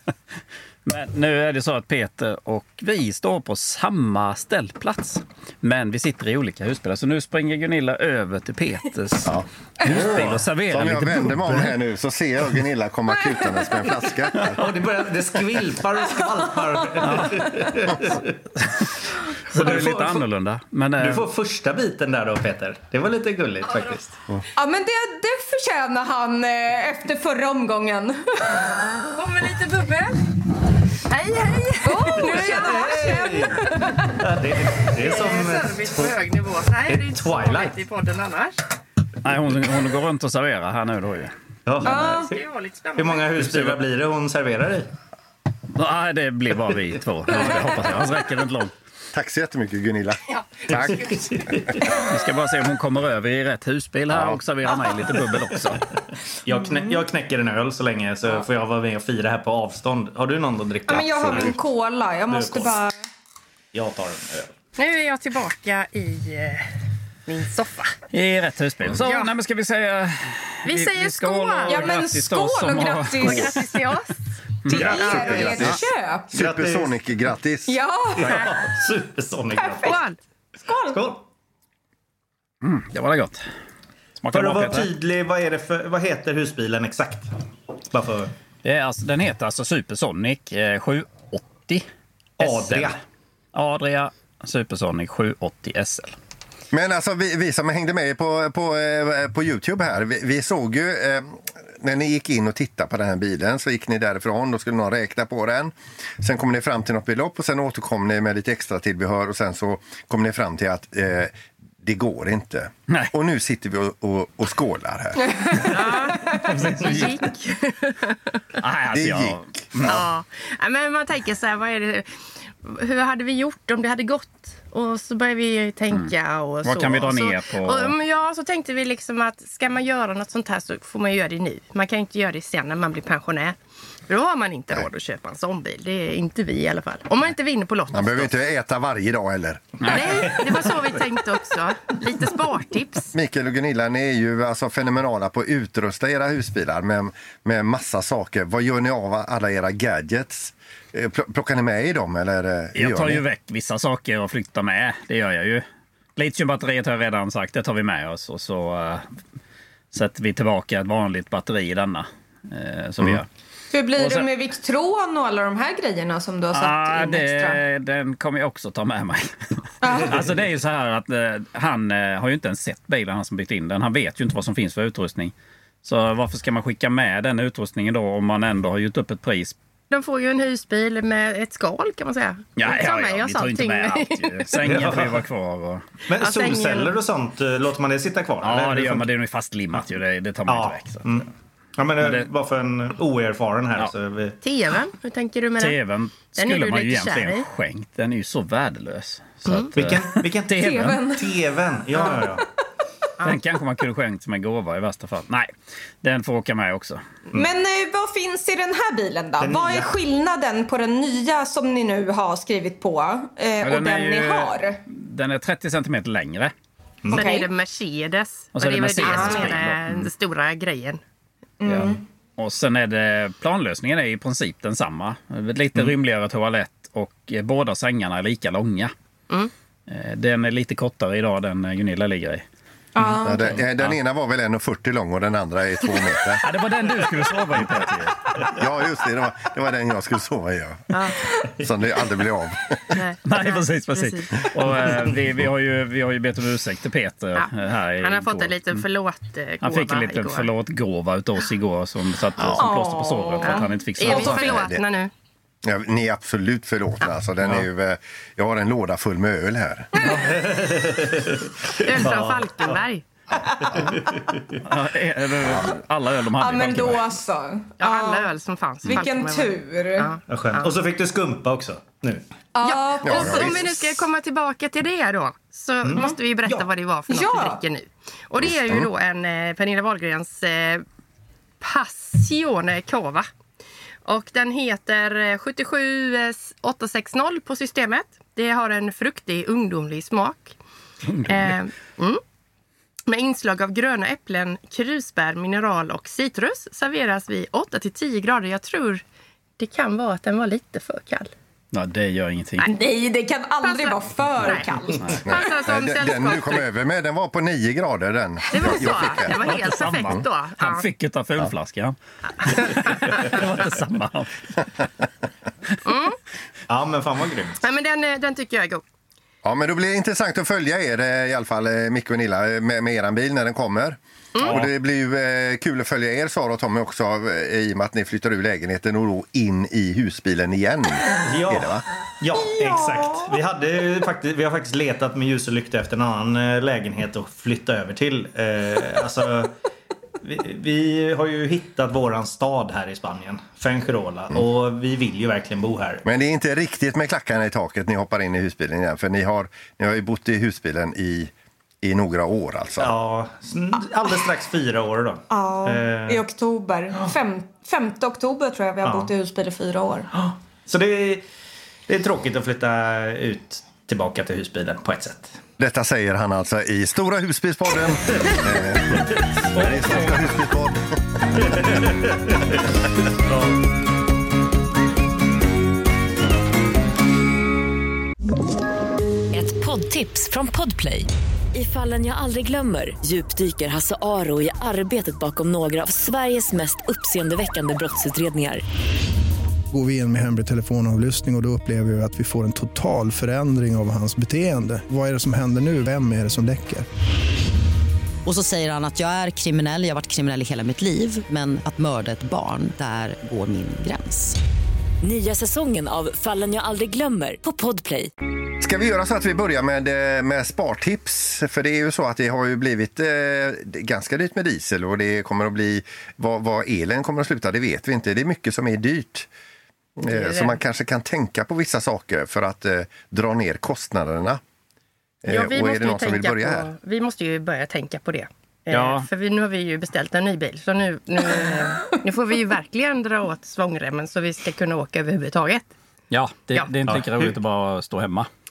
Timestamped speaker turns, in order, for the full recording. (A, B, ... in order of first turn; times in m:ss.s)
0:00.8-0:11.7 A
0:09.9-0:10.4 B
0:10.2-0:14.6 C
0:13.3-0:13.9 D
0:14.6-0:18.4 B
0:16.5-0:17.6 D
0:17.0-0:17.4 A
0:19.5-0:21.2 A
0:19.5-0:20.2 B
0:21.0-0:24.2 B
0:24.6-0:28.7 D
0:29.1-0:30.2 E
0:31.1-0:33.3 E
0:31.8-0:34.2 D
0:32.2-0:36.2 B
0:34.8-0:38.6 E
0:36.9-0:37.8 B
0:39.2-0:41.3 A
0:41.6-0:42.3 B
0:41.8-0:42.4 D
0:41.8-0:43.3 E
0:43.0-0:44.9 B
0:43.4-0:43.8 A
0:45.7-0:48.7 A
0:49.1-0:51.5 C
0:50.3-0:51.2 E
0:50.9-0:51.9 B
0:51.9-0:55.8 A
0:54.1-0:54.4 C
0:56.4-1:01.5 B
0:56.5-0:56.9 D
1:00.9-1:03.0 D
1:02.3-1:02.7 B
1:03.7-1:04.5 B
1:04.8-1:06.7 E
1:07.3-1:08.0 E
1:08.1-1:13.6 A
1:09.0-1:09.3 E
1:10.6-1:11.9 E
1:11.6-1:13.6 D
1:13.2-1:14.2 E
1:14.6-1:15.8 A
1:14.7-1:16.3 D
1:14.7-1:15.4 E
1:15.2-1:15.5 B
1:15.2-1:15.8 C
1:16.3-1:17.8 C
1:16.3-1:16.9 B
1:17.7-1:18.4 D
1:18.1-1:20.0 B
1:18.2-1:18.5 E
1:19.6-1:20.0 D
1:19.8-1:20.2 E
1:20.6-1:21.0 D
1:20.8-1:21.2 B
1:22.6-1:23.4 A
1:24.2-1:24.9 A
1:24.3-1:27.3 B
1:27.9-1:28.3 B
1:28.6-1:31.9 A
1:32.4-1:33.0 A
1:32.4-1:33.0 B
1:33.5-1:36.1 A
1:36.7-1:55.5 C
1:55.2-1:56.4 D
1:55.6-1:58.4 E
1:56.4-1:57.2 A
1:58.6-2:00.0 A
1:58.9-2:00.0 C
1:59.8-2:13.6 E
2:06.6-2:07.9 A
2:14.1-2:18.3 E
2:17.9-2:20.0 C
2:19.8-2:20.4 A
2:19.8-2:23.1 E
2:23.1-2:33.2 C
2:32.8-2:35.6 A
2:36.2-2:39.1 A
2:39.9-2:43.3 A
2:43.7-2:47.6 D
2:44.0-2:44.2 A
2:46.5-2:59.6 A
2:49.8-2:50.2 D
2:59.9-3:04.7 E
3:02.6-3:05.8 A
3:04.6-3:05.2 B
3:06.1-3:09.1 B
3:06.2-3:06.9 E
3:08.4-3:11.2 A
3:10.5-3:14.4 B
3:12.0-3:12.3 A
3:14.4-3:15.8 E
3:15.6-3:21.0 A
3:16.3-3:17.5 E
3:19.5-3:19.7 E
3:19.8-3:22.4 B
3:20.5-3:21.4 D
3:21.9-3:22.4 D
3:23.2-3:25.5 A
3:26.0-3:27.0 A
3:27.3-3:34.8 D
3:29.4-3:29.9 B
3:33.6-3:36.5 A
3:37.0-3:37.3 B
3:37.1-3:41.0 E
3:37.1-3:37.5 D
3:38.5-3:40.1 A
3:39.1-3:39.5 D
3:41.6-3:42.0 D
3:41.6-3:48.9 A
3:49.9-3:52.4 A
3:53.0-3:53.6 D
3:53.2-3:56.4 C
3:53.6-3:54.0 A
3:56.4-3:58.4 A
3:58.5-4:02.9 C
4:00.9-4:01.2 E
4:02.9-4:04.5 E
4:03.2-4:08.8 A
4:07.3-4:10.5 E
4:09.6-4:14.7 A
4:12.6-4:13.8 D
4:13.4-4:15.1 E
4:14.0-4:14.8 C
4:15.6-4:19.9 C
4:20.0-4:20.3 D
4:20.0-4:22.8 B
4:21.8-4:23.0 E
4:23.7-4:24.6 B
4:24.6-4:27.0 A
4:26.3-4:28.3 D
4:27.8-4:30.7 E
4:28.9-4:30.1 D
4:30.3-4:32.2 B
4:32.5-4:33.7 D
4:32.6-4:40.8 E
4:33.0-4:33.6 C
4:35.8-4:36.6 B
4:37.1-4:37.6 D
4:38.5-4:38.9 C
4:41.6-4:43.3 E
4:44.0-4:50.6 E
4:51.0-4:51.6 A
4:51.2-4:52.2 E
4:53.1-4:59.0 E
4:59.6-5:01.3 E
5:01.7-5:02.6 A
5:02.6-5:05.2 D
5:03.6-5:06.6 E
5:05.2-5:09.5 C
5:08.5-5:10.9 E
5:09.3-5:14.6 A
5:12.4-5:13.2 E
5:15.8-5:16.2 E
5:16.7-5:17.6 B
5:17.6-5:18.8 E
5:19.4-5:31.8 C
5:24.3-5:24.6 E
5:31.2-5:39.5 B
5:40.2-5:46.0 B
5:46.0-5:52.9 C
5:52.8-5:56.2 B
5:55.3-6:00.1 D
5:58.8-5:59.1 B
6:00.1-6:01.2 B
6:01.9-6:05.4 B
6:05.6-6:10.8 C
6:09.6-6:10.1 A
6:11.4-6:12.4 B
6:13.3-6:13.6 B
6:19.3-6:28.6 F
6:29.7-6:36.8 G
6:38.2-6:44.4 H
6:45.0-6:48.1 F
6:48.6-6:59.3 C
7:00.0-7:04.4 C
7:00.1-7:00.6 E
7:05.2-7:06.7 C
7:05.3-7:15.7 E
7:08.7-7:09.1 A
7:16.1-7:18.3 A
7:16.9-7:17.3 B